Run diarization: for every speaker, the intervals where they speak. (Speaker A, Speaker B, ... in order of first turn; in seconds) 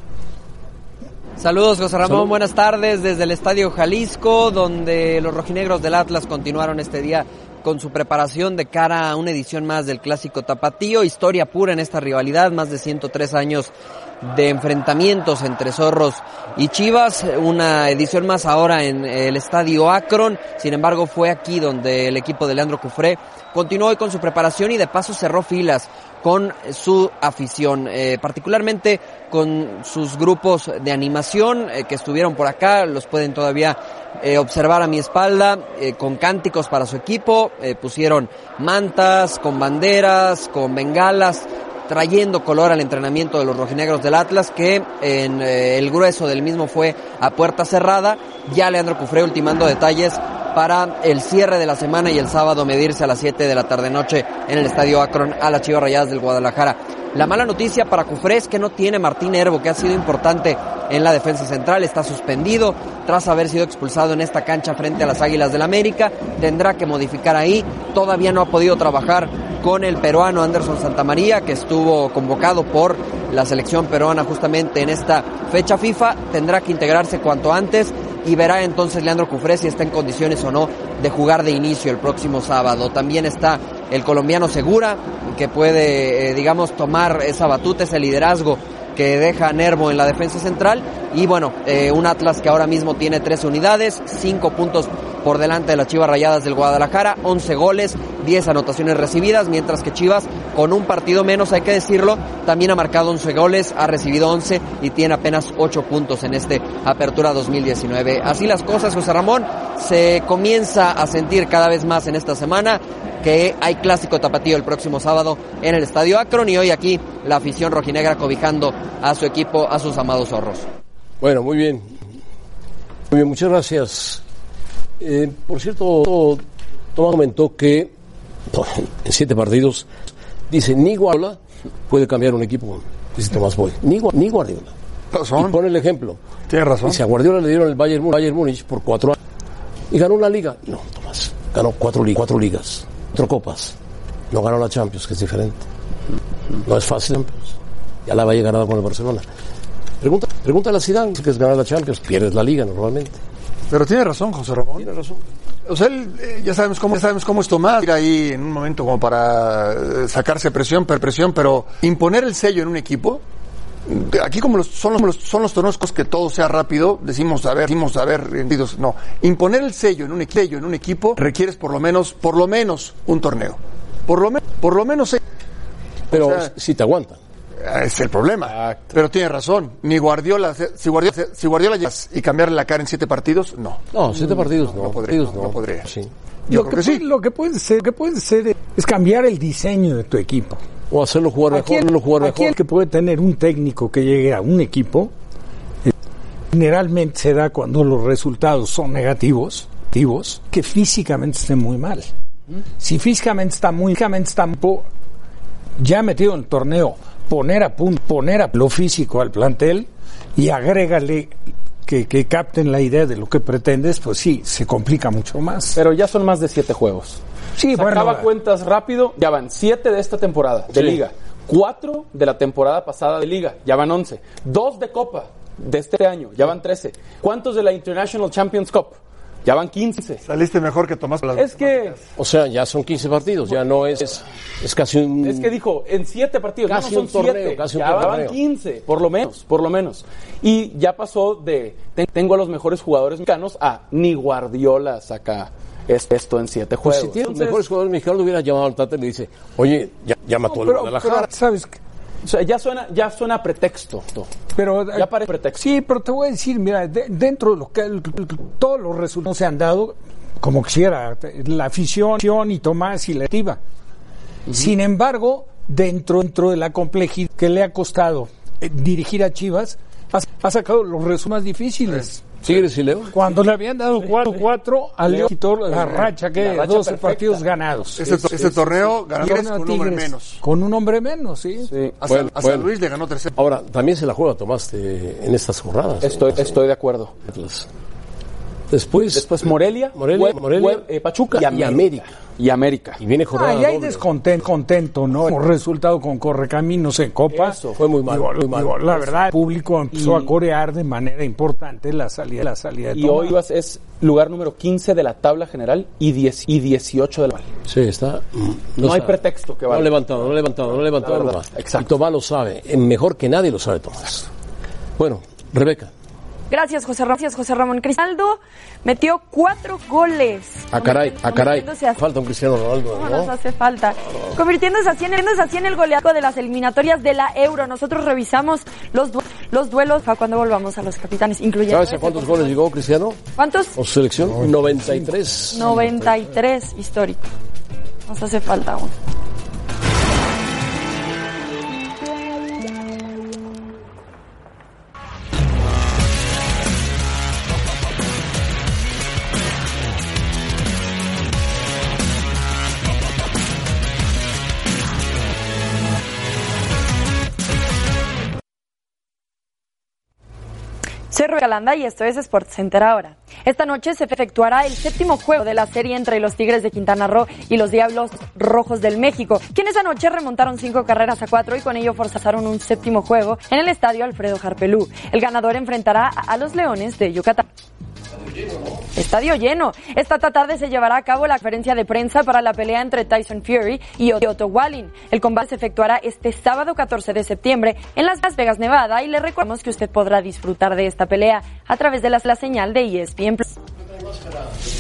Speaker A: 1.4-120.7
Speaker B: 2.0-2.3, 121.2-122.0, 123.1-124.2, 125.0-126.4, 126.9-127.9, 128.5-129.9, 130.5-134.7, 135.4-136.2, 136.8-139.2, 139.9-143.8, 144.3-145.7, 146.6-149.2, 150.0-153.2, 154.8-155.2, 176.1-177.2, 183.9-186.1, 190.9-192.6, 232.2-235.6, 236.6-238.4, 246.8-251.3, 272.4-273.2, 282.0-282.7, 283.3-286.6, 287.2-287.7, 288.7-289.3, 289.9-292.1, 293.0-294.1, 297.7-299.1, 307.6-314.3, 315.0-315.9, 320.7-323.3, 331.7-333.2, 333.7-336.0, 378.1-378.9, 393.9-394.5
Speaker C: 135.1-135.6, 136.5-137.0, 153.7-154.9, 155.7-163.2, 163.8-175.2, 176.1-176.5, 177.6-185.9, 186.5-187.0, 230.2-232.0, 278.0-280.4, 282.0-283.3
Speaker D: 178.5-179.0, 215.7-217.2, 217.7-230.2, 231.3-231.9, 235.2-247.6, 252.2-254.3, 254.9-255.6, 274.0-274.4, 275.1-277.4, 278.1-278.9, 281.7-281.9, 286.0-287.1, 289.1-293.0, 297.3-297.8, 299.9-300.3, 302.9-307.5, 308.8-311.9
Speaker E: 186.5-190.6, 191.5-195.1, 196.5-202.1, 202.8-204.8, 205.8-211.3, 211.8-215.8, 217.6-218.3, 250.5-251.8, 254.5-263.6, 264.5-272.2, 273.1-278.4, 279.2-281.7, 293.3-303.4, 334.3-335.0
Speaker F: 316.5-322.0, 322.9-332.6, 333.4-333.8, 335.5-337.2, 338.1-338.9, 361.1-377.4, 378.9-393.5